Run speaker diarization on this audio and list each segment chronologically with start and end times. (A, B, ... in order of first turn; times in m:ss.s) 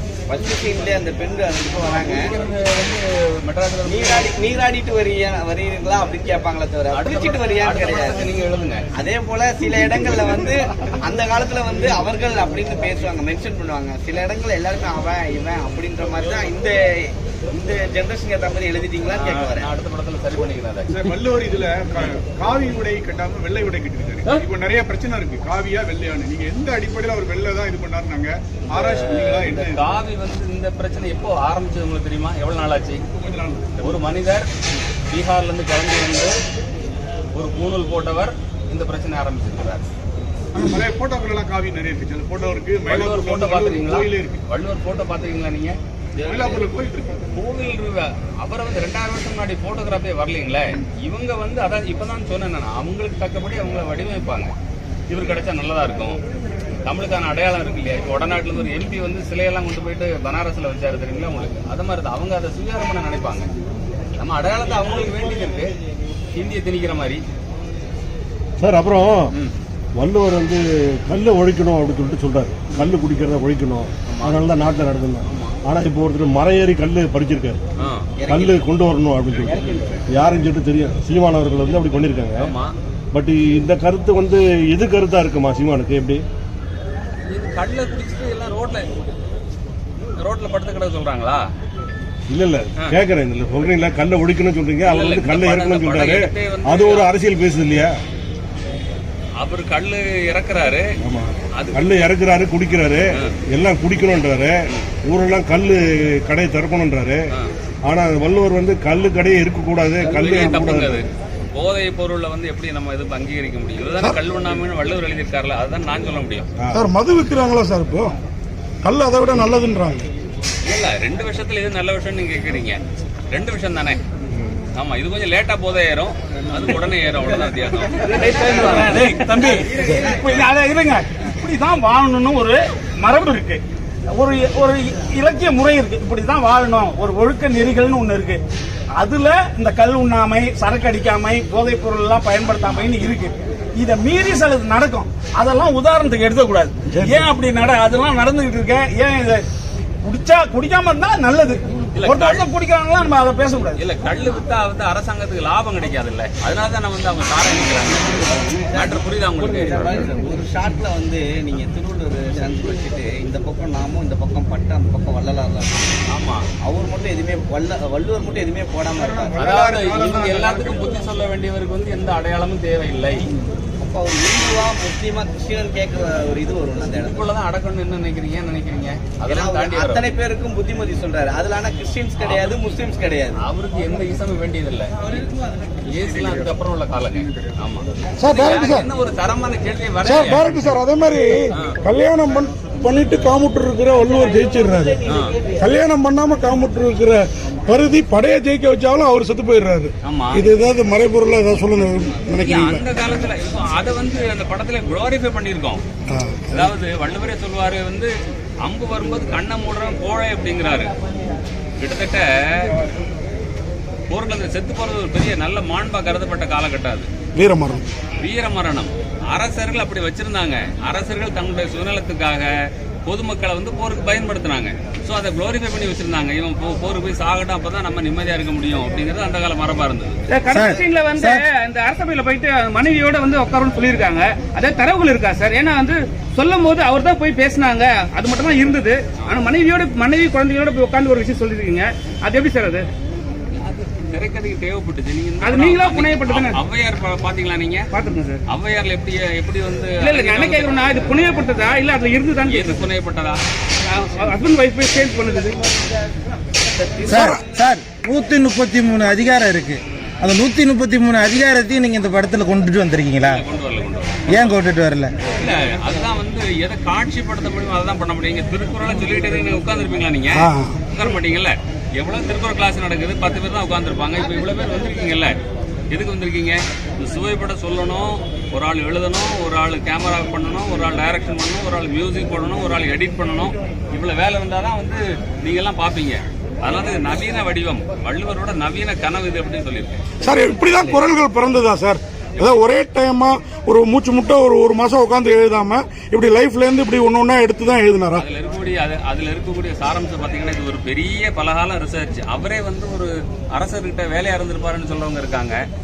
0:00.3-0:02.3 A
0:02.0-0:04.3 B
0:03.8-0:08.2 A
0:06.9-0:08.9 B
0:09.0-0:19.7 A
0:19.2-0:20.9 B
0:20.9-0:29.9 C
0:28.8-0:33.0 B
0:33.1-0:34.0 C
0:33.8-0:34.5 B
0:35.1-0:36.3 B
0:37.4-0:39.8 B
0:40.6-0:44.4 C
0:42.9-0:45.8 B
0:46.2-0:46.6 A
0:46.2-0:47.2 C
0:47.4-0:54.5 B
0:55.1-0:56.2 B
0:56.8-1:03.5 B
1:04.2-1:05.8 B
1:06.3-1:07.2 B
1:08.6-1:09.3 D
1:10.0-1:17.6 D
1:14.1-1:14.4 B
1:15.3-1:15.6 B
1:17.8-1:18.1 B
1:18.2-1:18.6 A
1:18.3-1:19.6 D
1:20.1-1:22.5 D
1:22.4-1:22.8 B
1:23.1-1:26.2 D
1:27.3-1:28.9 B
1:30.2-1:31.4 B
1:32.3-1:37.9 D
1:34.8-1:37.1 B
1:39.4-1:40.9 B
1:41.0-1:47.2 D
1:41.6-1:42.0 B
1:47.9-1:51.0 D
1:50.0-1:56.5 B
1:56.6-1:56.8 D
1:56.7-1:58.2 E
1:58.8-2:00.1 E
2:00.6-2:04.0 B
2:04.8-2:10.4 B
2:08.2-2:09.6 F
2:08.5-2:09.3 E
2:09.9-2:10.5 E
2:10.2-2:13.6 F
2:14.2-2:18.4 F
2:19.0-2:29.4 F
2:26.8-2:27.4 E
2:30.0-2:31.6 F
2:32.0-2:32.4 B
2:32.0-2:32.4 E
2:32.4-2:33.8 F
2:33.8-2:39.8 B
2:38.3-2:46.0 A
2:46.1-2:46.4 B
2:46.6-2:49.4 A
2:48.9-2:50.9 C
2:49.4-2:53.2 B
2:53.8-2:57.2 A
2:57.0-3:00.0 B
2:59.2-3:03.4 A
3:02.2-3:02.6 B
3:03.4-3:05.0 B
3:05.9-3:10.6 B
3:08.2-3:08.9 E
3:10.0-3:15.0 E
3:14.3-3:15.6 A
3:15.1-3:15.4 B
3:15.6-3:22.8 E
3:20.0-3:20.5 B
3:22.4-3:25.8 B
3:26.1-3:26.7 E
3:26.5-3:30.9 B
3:31.8-3:32.7 B
3:34.1-3:37.1 B
3:37.4-3:37.8 E
3:38.2-3:42.5 B
3:43.0-3:50.2 B
3:50.3-4:02.9 G
3:50.5-3:51.4 H
4:03.5-4:07.9 B
4:05.4-4:06.6 G
4:07.9-4:08.4 G
4:08.5-4:11.4 B
4:10.0-4:12.9 G
4:12.5-4:13.4 B
4:13.8-4:15.7 G
4:16.7-4:17.3 B
4:17.0-4:23.4 H
4:17.1-4:17.4 E
4:23.2-4:24.6 B
4:24.3-4:25.1 H
4:25.3-4:35.4 B
4:30.4-4:30.8 E
4:35.9-4:50.2 B
4:50.2-4:58.2 E
4:50.7-4:51.0 B
4:58.2-5:05.6 B